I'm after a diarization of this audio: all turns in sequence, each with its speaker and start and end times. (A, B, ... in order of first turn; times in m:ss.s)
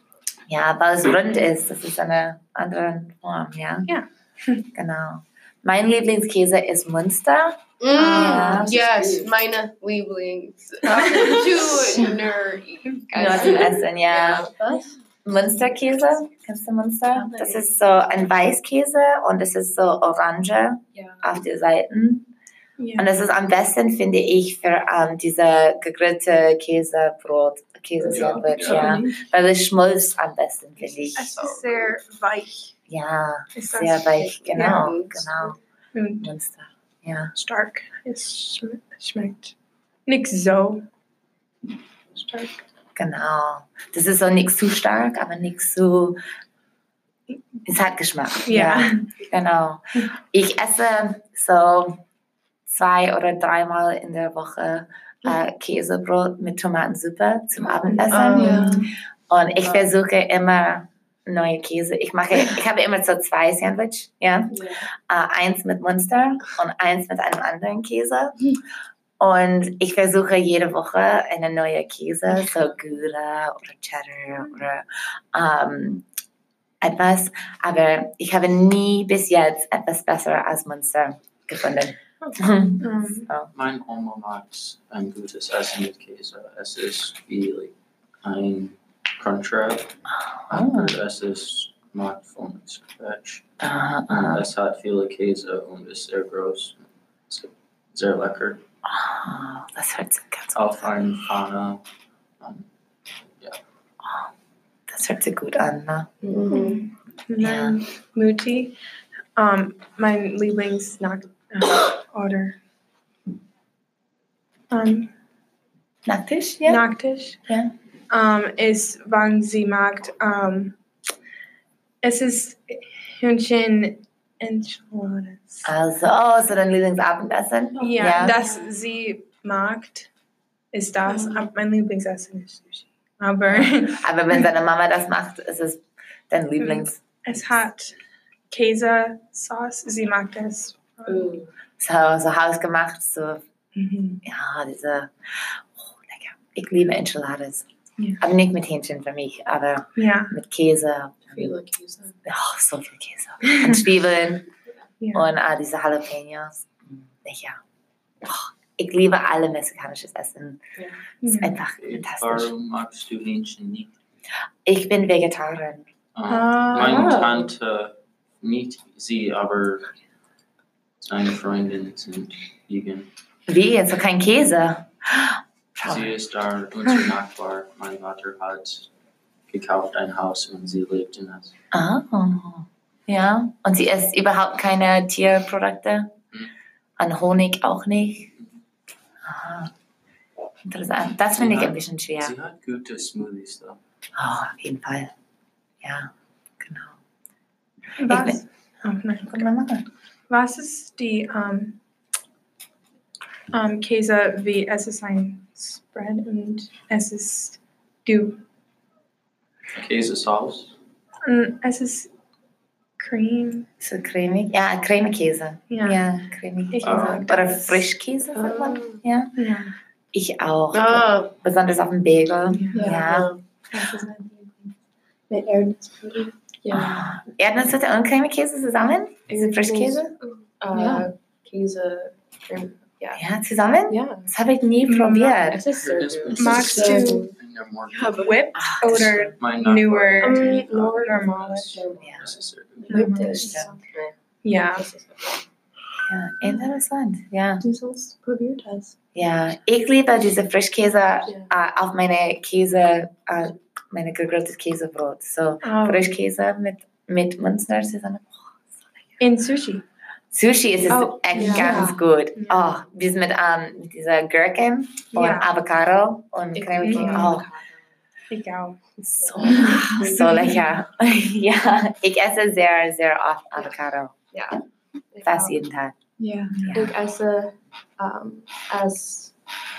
0:00.5-0:03.9 A
0:03.9-0:04.6 B
0:04.7-0:08.7 A
0:07.8-0:14.5 C
0:07.9-0:09.3 D
0:10.8-0:12.1 D
0:13.1-0:14.5 A
0:13.2-0:13.7 D
0:14.3-0:14.8 D
0:15.2-0:22.3 A
0:17.1-0:17.7 D
0:20.9-0:21.3 D
0:22.8-0:23.1 B
0:23.0-0:31.3 A
0:28.1-0:29.0 E
0:28.1-0:29.1 D
0:31.0-0:31.6 C
0:31.1-0:32.7 B
0:32.9-0:35.6 A
0:33.5-0:34.9 B
0:34.6-0:34.8 C
0:35.9-0:36.3 B
0:36.2-0:37.3 A
0:37.3-0:39.5 B
0:40.0-0:40.8 B
0:42.1-0:42.6 B
0:43.0-0:46.2 A
0:47.6-0:52.0 A
0:48.4-0:49.1 B
0:52.7-0:58.7 A
0:57.9-0:58.9 B
0:58.1-0:58.9 D
0:59.3-1:08.4 A
0:59.6-0:59.9 D
1:04.5-1:04.9 D
1:09.2-1:16.0 A
1:16.8-1:23.5 A
1:22.2-1:23.3 B
1:23.5-1:29.9 E
1:30.2-1:31.0 A
1:30.5-1:33.4 E
1:33.6-1:34.5 A
1:34.1-1:38.6 E
1:38.8-1:41.0 A
1:40.5-1:41.8 E
1:42.4-1:42.7 E
1:44.0-1:44.3 A
1:44.9-1:46.1 A
1:46.2-1:46.8 D
1:46.5-1:48.8 B
1:47.4-1:47.8 A
1:49.4-1:52.6 B
1:54.7-1:55.1 B
1:56.0-1:56.8 A
1:56.6-1:57.4 B
1:58.1-2:00.8 B
2:02.0-2:05.7 B
2:05.6-2:08.4 A
2:07.8-2:08.7 D
2:07.8-2:10.1 B
2:10.7-2:14.4 B
2:11.0-2:11.4 D
2:13.5-2:17.0 A
2:16.6-2:18.0 B
2:18.5-2:21.3 B
2:21.1-2:21.5 D
2:21.8-2:23.4 A
2:23.7-2:24.2 B
2:24.2-2:27.6 A
2:28.2-2:31.5 A
2:30.0-2:30.4 B
2:31.3-2:32.2 D
2:32.2-2:34.4 A
2:35.0-2:35.2 B
2:35.1-2:37.6 A
2:38.2-2:40.6 A
2:41.2-2:41.6 B
2:41.3-2:42.5 A
2:41.8-2:43.9 E
2:44.6-2:45.8 A
2:46.1-2:49.8 E
2:46.3-2:47.3 B
2:46.8-2:47.5 D
2:51.0-2:53.1 E
2:53.5-2:56.2 A
2:55.8-2:58.9 E
2:59.5-3:01.5 E
3:01.7-3:06.1 A
3:07.0-3:08.3 A
3:09.2-3:09.7 A
3:10.6-3:12.3 A
3:11.3-3:13.8 E
3:14.2-3:15.1 A
3:15.8-3:16.1 A
3:16.6-3:17.0 A
3:18.0-3:19.5 B
3:18.1-3:18.4 A
3:19.3-3:19.8 A
3:20.3-3:21.8 B
3:23.5-3:28.4 B
3:29.7-3:30.7 E
3:31.2-3:32.1 B
3:33.0-3:33.7 B
3:33.8-3:39.3 A
3:35.7-3:36.0 B
3:36.7-3:37.8 B
3:36.8-3:37.5 E
3:38.5-3:39.0 D
3:39.4-3:39.7 B
3:40.1-3:43.3 A
3:40.7-3:41.3 C
3:42.5-3:43.0 B
3:42.7-3:43.2 F
3:43.1-3:43.3 D
3:43.7-3:44.7 F
3:45.3-3:46.3 F
3:46.6-3:47.1 D
3:46.7-3:50.1 A
3:49.3-3:53.2 D
3:50.7-3:51.0 F
3:53.1-3:55.6 A
3:53.9-3:54.3 D
3:54.8-3:55.4 B
3:55.4-3:57.3 D
3:55.7-3:58.5 E
3:56.4-3:57.3 B
3:57.9-3:58.4 C
3:58.2-4:01.8 B
3:58.5-3:59.4 A
3:59.2-4:03.1 E
4:00.2-4:05.5 D
4:02.0-4:02.2 A
4:02.9-4:03.6 B
4:03.0-4:03.7 A
4:04.4-4:04.8 B
4:06.0-4:07.6 A
4:07.6-4:08.9 F
4:09.1-4:18.6 A
4:15.6-4:16.1 B
4:19.2-4:19.8 B
4:20.3-4:27.5 A
4:20.9-4:22.8 B
4:21.3-4:21.9 D
4:21.6-4:21.9 F
4:25.1-4:25.5 B
4:26.5-4:28.0 D
4:26.8-4:27.4 B
4:28.3-4:28.8 B
4:29.0-4:34.1 A
4:29.2-4:30.3 D
4:29.4-4:30.6 B
4:34.3-4:35.6 D
4:35.2-4:36.0 A
4:36.2-4:36.7 B
4:36.6-4:37.0 A
4:36.7-4:39.3 D